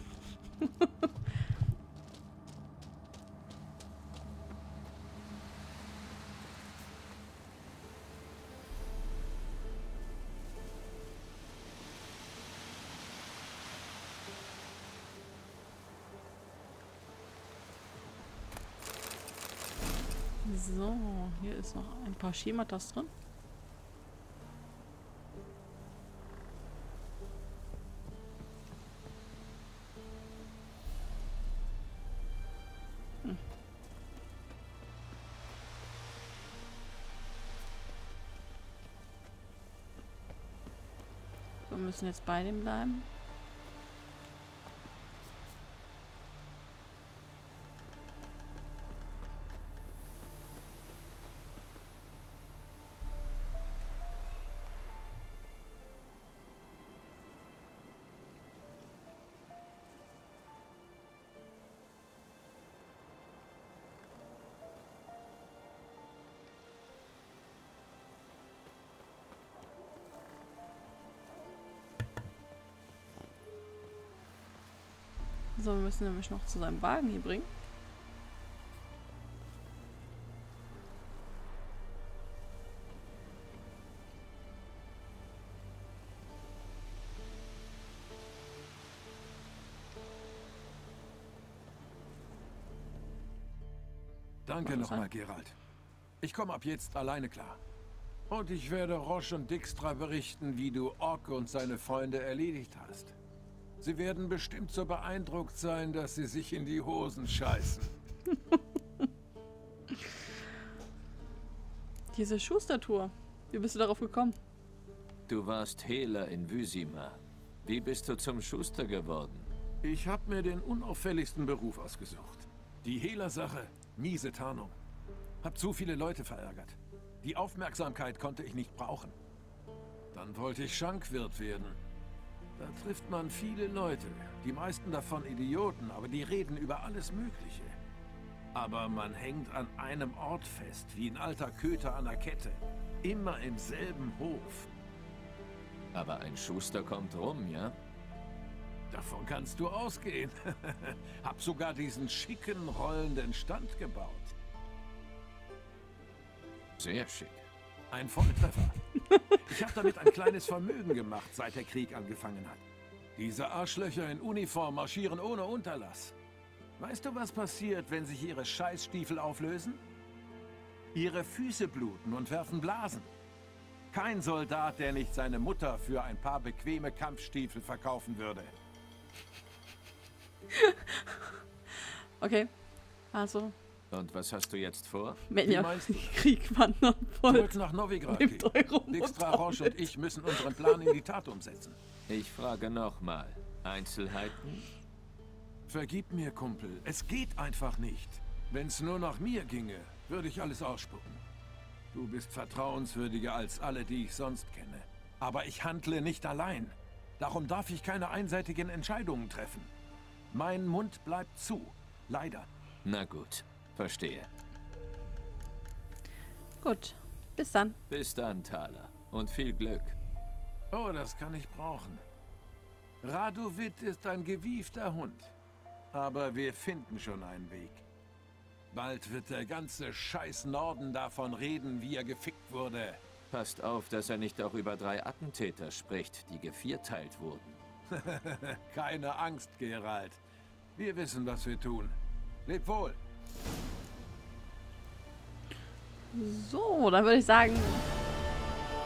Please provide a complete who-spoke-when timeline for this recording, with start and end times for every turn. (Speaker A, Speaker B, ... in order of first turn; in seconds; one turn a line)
Speaker A: 0.6-1.1
Speaker A: 20.4-23.1
Speaker A: 41.7-43.1
Speaker A: 75.6-77.5
Speaker B: 94.5-95.5
Speaker A: 94.7-95.1
Speaker B: 96.2-97.6
Speaker B: 98.3-103.2
Speaker B: 103.8-107.9
Speaker A: 112.1-114.4
Speaker C: 115.3-119.5
Speaker B: 119.8-124.8
Speaker B: 125.4-129.2
Speaker B: 130.1-131.8
Speaker B: 132.6-137.8
Speaker B: 138.5-144.7
Speaker C: 145.9-147.8
Speaker B: 148.9-154.3
Speaker C: 156.8-157.5
Speaker B: 157.9-158.8
Speaker A: 159.1-159.6
Speaker B: 159.4-162.6
Speaker B: 163.2-166.1
Speaker B: 166.8-169.8
Speaker B: 170.9-173.1
Speaker B: 173.9-178.5
Speaker A: 180.5-181.3
Speaker A: 182.2-182.5
Speaker A: 183.1-183.6
Speaker C: 183.9-185.3
Speaker A: 185.3-187.6
Speaker B: 185.4-186.2
Speaker B: 187.3-191.8
Speaker A: 188.1-190.9
Speaker C: 192.1-194.7
Speaker B: 195.7-201.2
Speaker B: 201.9-209.7
Speaker B: 210.3-212.5
Speaker C: 212.8-214.3
Speaker A: 216.6-217.8
Speaker C: 217.9-220.0
Speaker B: 220.7-222.0
Speaker B: 223.0-225.3
Speaker B: 225.9-227.8
Speaker B: 228.7-233.0
Speaker C: 233.3-237.6
Speaker B: 237.9-240.2
Speaker B: 240.8-243.0
Speaker A: 246.1-247.8